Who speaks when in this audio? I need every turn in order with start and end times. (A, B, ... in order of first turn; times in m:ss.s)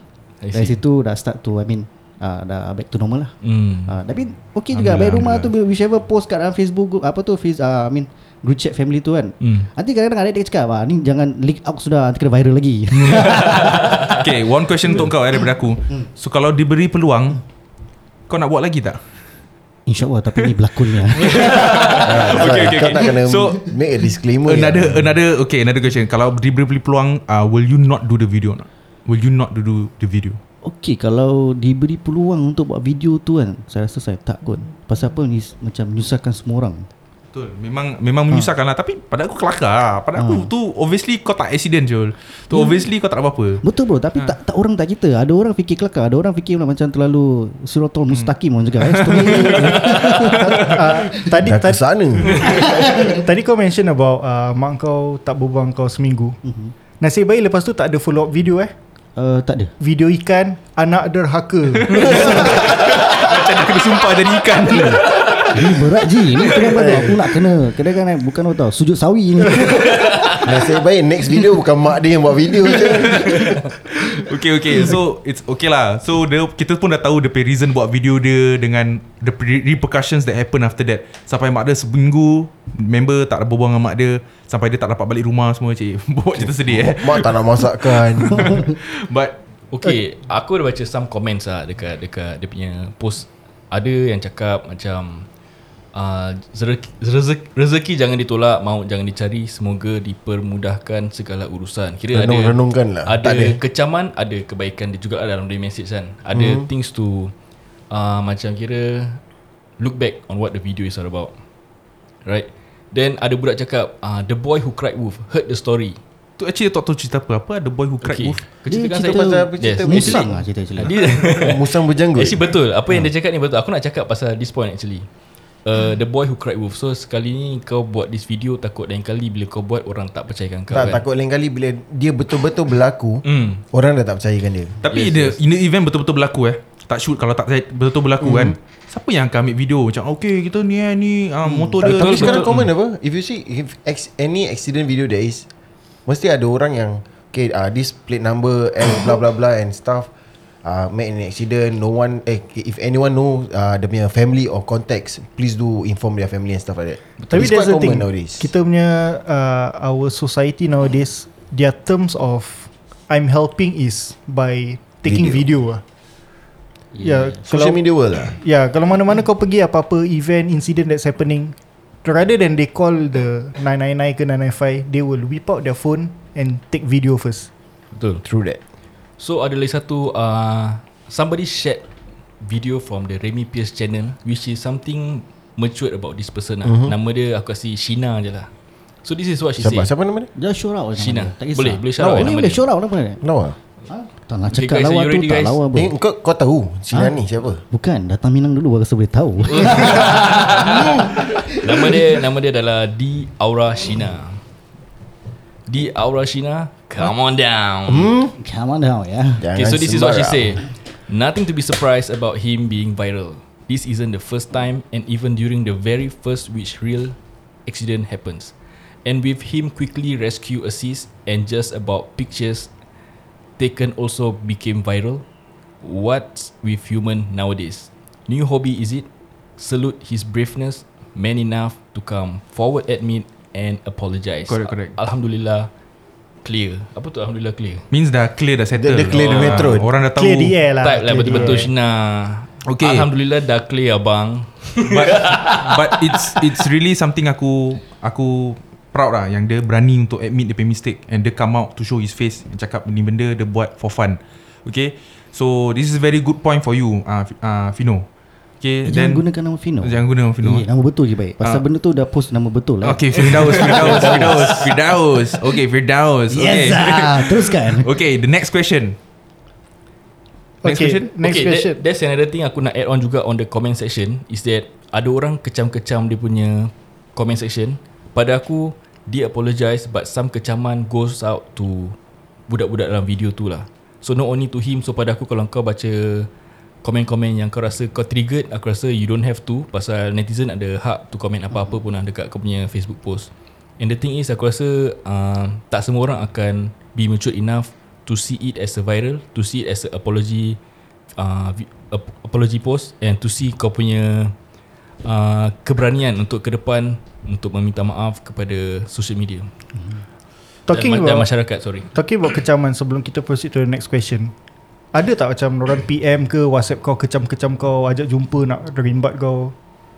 0:00.4-0:00.8 A
0:00.5-0:03.3 B
0:03.4-0:03.9 A
0:03.9-0:14.2 B
0:04.7-0:05.5 C
0:09.4-0:09.7 A
0:13.0-0:17.4 C
0:18.3-0:19.0 C
0:19.9-0:22.1 B
0:21.1-0:23.8 C
0:21.8-0:22.0 A
0:22.0-0:25.1 D
0:24.4-0:30.4 C
0:30.6-0:36.8 B
0:37.3-0:43.6 C
0:40.2-0:40.5 B
0:42.5-0:42.9 B
0:43.6-0:51.3 B
0:48.1-0:51.0 C
0:49.8-0:56.4 E
0:51.4-0:52.6 D
0:56.4-0:56.7 B
0:57.0-0:58.7 E
0:59.2-0:59.7 B
0:59.8-1:02.4 E
1:01.8-1:06.9 C
1:02.1-1:02.6 B
1:04.6-1:10.7 B
1:10.4-1:13.5 D
1:12.8-1:29.3 C
1:26.4-1:28.6 D
1:29.7-1:35.3 A
1:35.9-1:47.3 A
1:42.1-1:43.6 D
1:46.3-1:46.7 D
1:47.9-1:49.2 A
1:49.8-1:51.3 A
1:52.2-1:56.0 A
1:56.4-1:58.4 C
1:58.0-2:05.1 A
1:58.7-2:01.0 B
1:59.0-2:00.4 D
2:01.0-2:02.4 D
2:05.6-2:11.0 A
2:10.7-2:14.8 D
2:13.2-2:13.6 A
2:14.8-2:22.7 C
2:14.8-2:15.4 A
2:18.2-2:18.6 D
2:21.5-2:25.5 D
2:21.8-2:22.5 A
2:26.0-2:30.1 D
2:30.6-2:38.5 D
2:37.3-2:45.8 E
2:45.0-2:45.5 D
2:47.0-2:47.4 B
2:47.0-2:57.5 E
2:47.4-2:48.4 D
2:57.9-2:58.2 A
2:58.2-2:58.6 D
2:59.2-3:01.8 A
3:02.4-3:08.5 A
3:06.6-3:06.9 D
3:09.0-3:09.9 A
3:09.6-3:10.3 D
3:10.4-3:13.2 B
3:11.0-3:12.6 A
3:13.2-3:13.6 D
3:13.9-3:15.9 B
3:14.5-3:15.6 A
3:15.7-3:17.6 D
3:16.9-3:22.0 B
3:19.6-3:24.4 A
3:25.7-3:28.1 A
3:27.9-3:28.3 D
3:28.3-3:29.5 B
3:29.4-3:30.6 D
3:29.5-3:38.5 A
3:39.0-3:42.7 A
3:43.6-3:45.2 A
3:45.8-3:49.1 A
3:49.6-3:55.7 A
3:54.5-3:54.9 C
3:56.4-3:57.9 A
3:57.9-4:00.6 C
3:58.8-3:59.9 D
3:59.0-3:59.8 A
4:00.1-4:01.7 E
4:00.8-4:06.4 A
4:01.3-4:01.6 C
4:02.6-4:03.1 C
4:04.8-4:18.1 C
4:18.6-4:19.2 C
4:18.8-4:24.7 B
4:19.8-4:20.6 C
4:22.8-4:29.0 C
4:23.2-4:24.7 A
4:26.3-4:27.9 B
4:30.6-4:31.8 E
4:30.6-4:31.1 C
4:31.2-4:42.0 A
4:42.5-4:46.3 A
4:46.8-5:00.6 A
5:01.2-5:04.3 A
5:05.0-5:09.5 A
5:10.7-5:11.3 E
5:10.7-5:11.9 A
5:11.9-5:14.3 E
5:14.9-5:19.5 E